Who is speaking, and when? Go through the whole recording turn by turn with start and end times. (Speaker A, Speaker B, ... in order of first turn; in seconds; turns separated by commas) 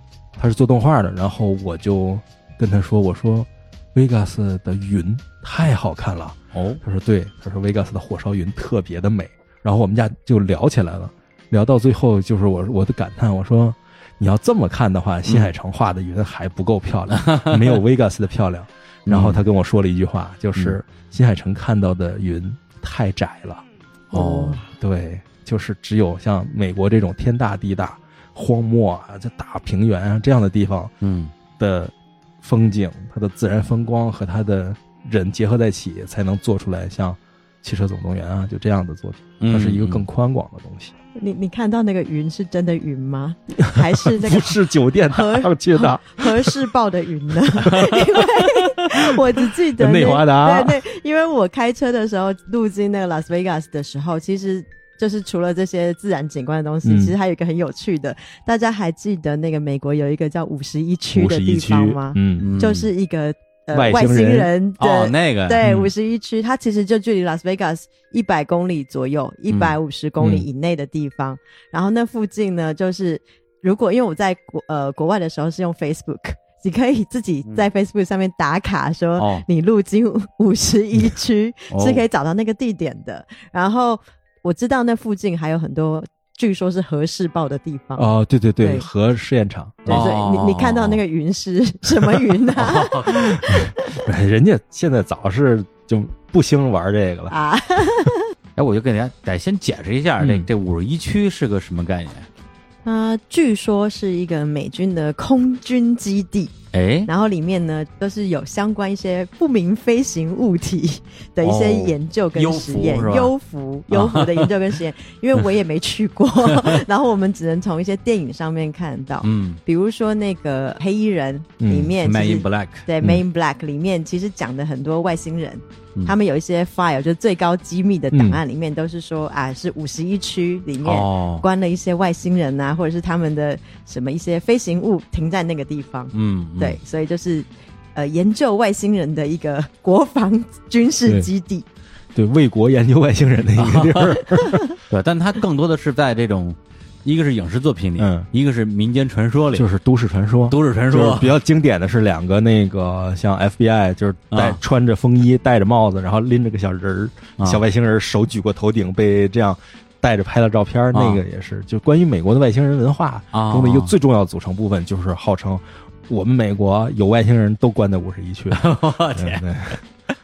Speaker A: 0.4-23.6, Speaker B: 6.5-6.8, Speaker B: 15.3-15.5, Speaker B: 17.1-17.8, Speaker B: 19.1-19.4, Speaker C: 24.1-24.6, Speaker B: 24.1-24.6, Speaker A: 24.8-30.9, Speaker B: 31.0-31.3, Speaker A: 31.6-41.0, Speaker B: 39.4-40.0, Speaker C: 41.2-88.1, Speaker A: 43.7-46.7, Speaker A: 47.6-49.2, Speaker B: 47.7-47.9, Speaker A: 49.8-50.8, Speaker A: 56.8-57.1, Speaker A: 61.1-62.5, Speaker B: 62.4-62.9, Speaker A: 63.7-64.5, Speaker B: 64.8-65.7, Speaker B: 69.5-70.5, Speaker B: 79.2-79.5, Speaker B: 81.7-82.0, Speaker A: 88.0-90.1, Speaker C: 88.6-88.9, Speaker B: 89.9-91.0, Speaker C: 89.9-94.0, Speaker B: 92.5-93.3, Speaker A: 93.4-97.3, Speaker C: 97.3-98.3, Speaker B: 98.6-102.3, Speaker A: 100.2-100.5, Speaker C: 102.8-106.5, Speaker B: 106.7-107.1, Speaker C: 107.1-141.7, Speaker B: 111.4-113.3, Speaker B: 113.9-114.5, Speaker B: 116.5-116.8, Speaker B: 119.2-119.6, Speaker A: 121.6-122.0, Speaker B: 122.0-122.8, Speaker A: 128.1-128.4, Speaker B: 130.8-131.5, Speaker B: 136.1-136.8, Speaker A: 142.2-144.7, Speaker B: 143.6-144.2, Speaker B: 144.9-149.7, Speaker A: 148.0-148.3, Speaker A: 149.5-169.8, Speaker B: 150.5-151.3, Speaker B: 154.3-154.6, Speaker B: 160.9-161.2, Speaker B: 163.3-163.9, Speaker B: 168.5-169.4